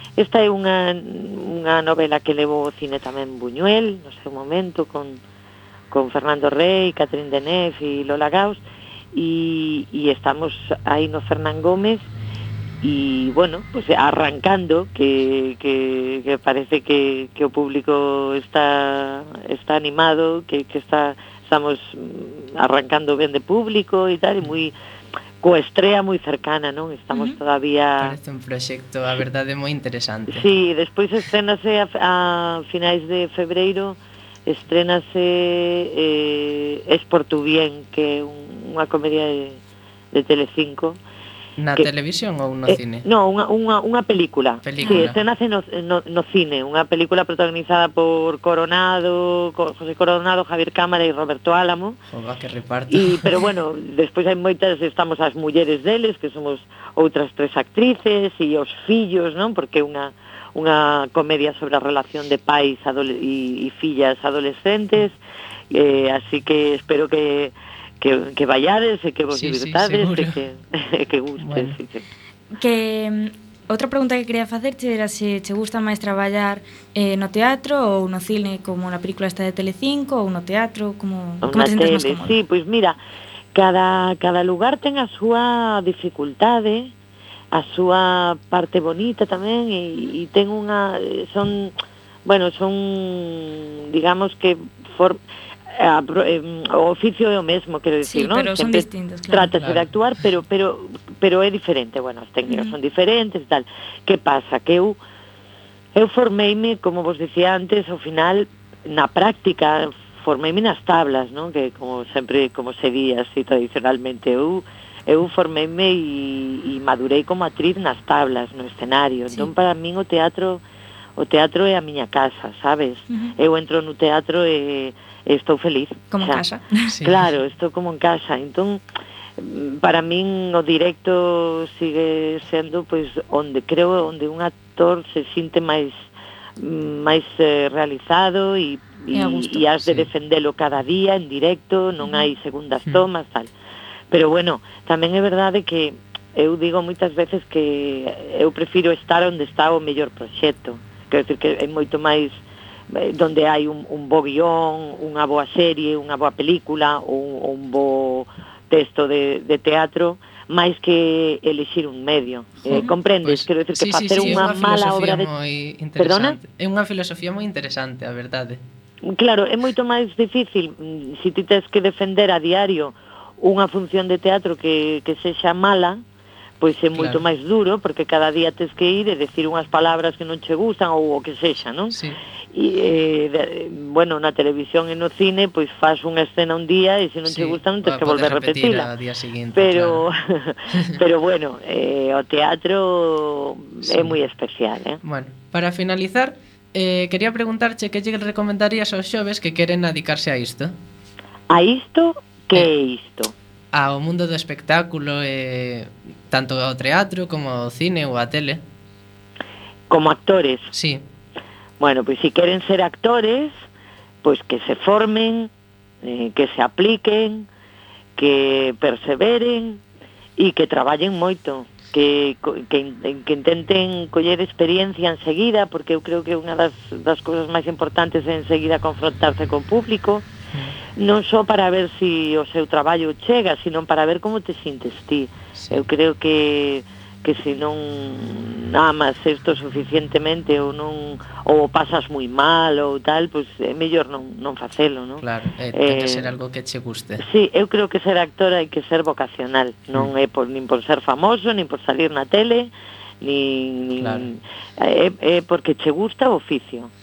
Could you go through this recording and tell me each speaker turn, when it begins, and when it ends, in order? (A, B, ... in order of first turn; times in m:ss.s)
0:00.2-0:05.2 A
0:05.9-0:08.6 A
0:09.1-0:12.1 A
0:12.8-0:24.7 A
0:25.4-0:28.2 A
0:27.1-0:27.4 B
0:28.0-0:30.4 C
0:30.3-0:39.6 A
0:40.1-0:41.0 A
0:41.6-0:43.1 C
0:42.7-0:52.0 A
0:44.6-0:45.2 C
0:52.1-0:53.3 C
0:52.9-1:05.2 A
1:05.7-1:12.0 A
1:09.3-1:10.4 C
1:11.4-1:11.8 C
1:12.6-1:22.4 B
1:21.4-1:23.0 A
1:23.5-1:26.9 A
1:27.5-1:31.7 A
1:32.3-1:45.0 A
1:38.0-1:39.5 B
1:42.5-1:42.8 B
1:46.0-2:00.6 A
2:01.2-2:06.4 A
2:06.1-2:06.9 B
2:07.0-2:07.2 C
2:07.0-2:08.8 A
2:09.4-2:16.1 A
2:16.6-2:23.5 A
2:19.1-2:19.7 B
2:24.1-2:45.3 A
2:43.2-2:48.6 C
2:46.0-2:46.4 A
2:49.1-2:56.0 A
2:56.6-3:02.0 A
2:57.0-2:57.2 C
3:01.9-3:02.2 C
3:02.5-3:08.9 A
3:07.3-3:10.0 C
3:09.6-3:15.0 A
3:13.9-3:14.2 C
3:15.0-3:20.7 C
3:21.5-3:23.3 A
3:23.7-3:28.6 C
3:29.9-3:30.7 A
3:30.7-3:31.0 C
3:31.8-3:33.6 A
3:34.2-3:35.5 A
3:36.0-3:37.5 A
3:38.2-3:39.8 A
3:40.4-3:50.3 A
3:50.9-4:05.2 A
3:55.6-3:55.8 C
4:05.2-4:07.2 C
4:05.7-4:06.3 A
4:07.2-4:16.9 A
4:14.0-4:14.3 C